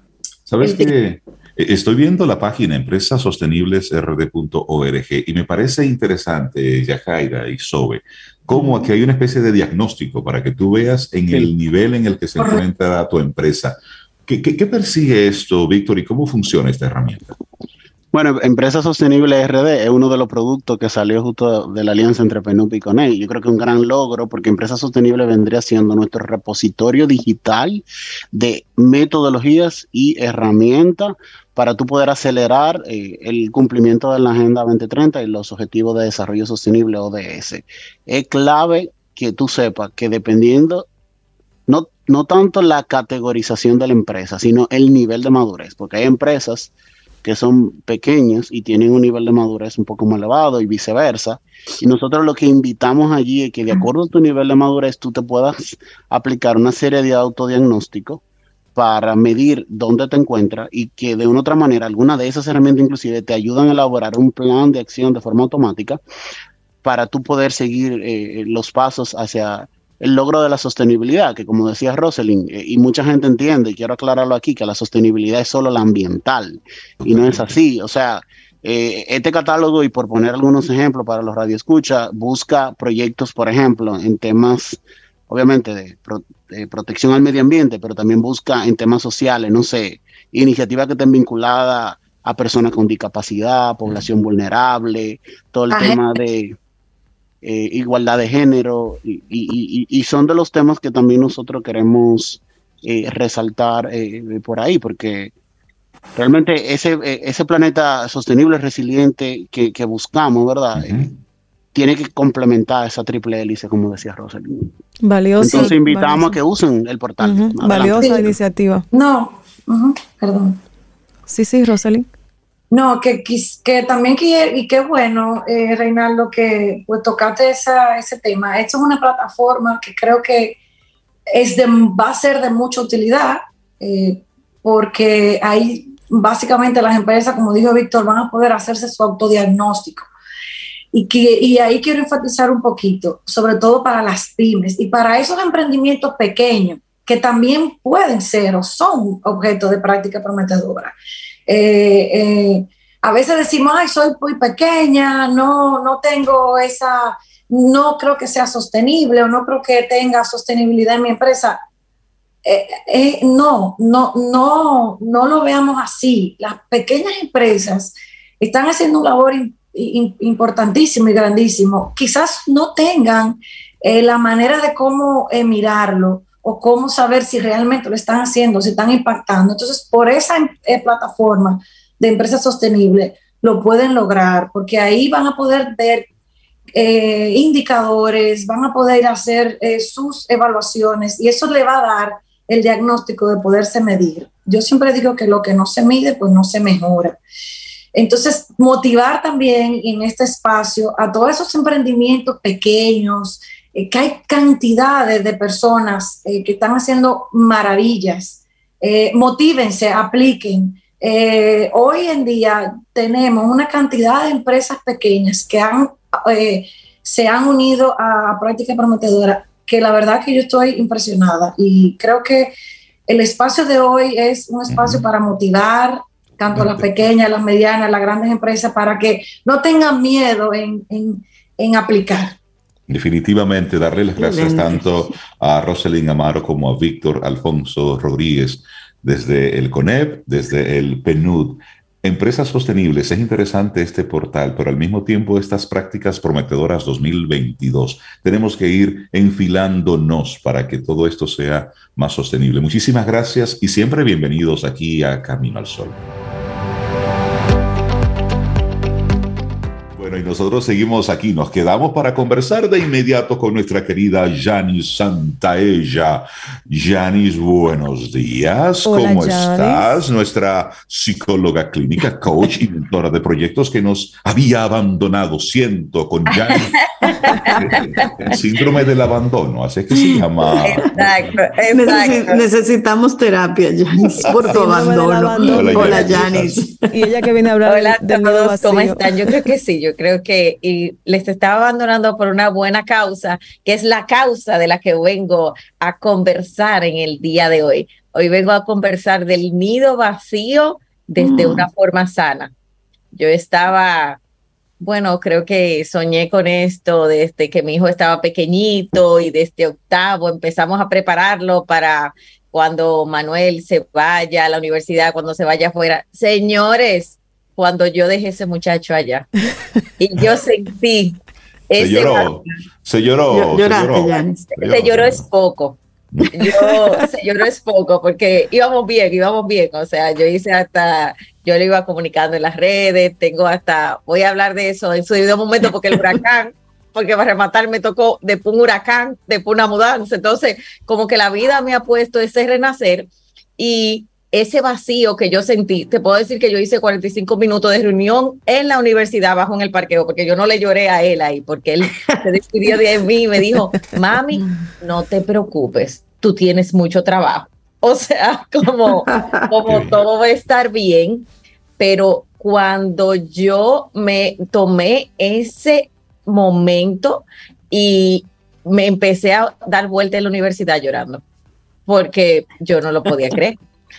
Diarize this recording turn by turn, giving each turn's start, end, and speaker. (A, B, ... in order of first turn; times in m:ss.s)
0:00.5-0:17.4 A
0:00.6-0:00.9 B
0:18.1-0:40.9 C
0:41.7-0:46.7 C
0:47.2-0:58.2 C
0:58.8-1:06.0 C
1:06.8-1:36.6 C
1:17.0-1:17.5 A
1:35.7-1:36.0 B
1:37.4-1:45.3 C
1:46.2-1:51.2 C
1:50.8-1:51.1 A
1:51.7-1:54.7 C
1:55.0-1:56.4 D
1:55.4-1:58.3 C
1:57.2-1:58.8 D
1:57.8-1:58.2 B
1:58.9-2:00.6 B
2:01.3-2:02.1 D
2:02.7-2:10.6 B
2:11.3-2:20.1 B
2:20.9-2:30.9 B
2:31.5-2:41.6 B
2:42.4-3:06.1 B
3:06.7-3:17.2 B
3:18.0-3:42.5 B
3:43.1-3:52.4 B
3:44.7-3:45.1 A
3:46.5-3:46.9 A
3:52.9-4:16.1 A
3:54.2-3:54.9 E
4:20.0-4:36.8 A
4:28.8-4:30.0 D
4:36.3-4:38.3 F
4:37.3-4:41.3 A
4:40.6-4:42.4 F
4:41.7-4:46.9 E
4:44.1-4:46.8 A
4:44.5-4:46.3 D
4:46.9-4:49.0 D
4:47.7-5:02.5 F
5:03.1-5:04.2 F
5:04.8-5:19.3 F
5:20.0-5:21.2 F
5:21.7-5:22.5 F
5:21.8-5:25.3 A
5:23.3-5:24.5 E
5:24.6-5:25.8 F
5:26.3-6:01.3 F
5:54.3-5:54.7 E
5:58.9-5:59.5 E
5:59.6-6:00.0 A
6:01.8-6:11.2 F
6:11.9-6:13.6 F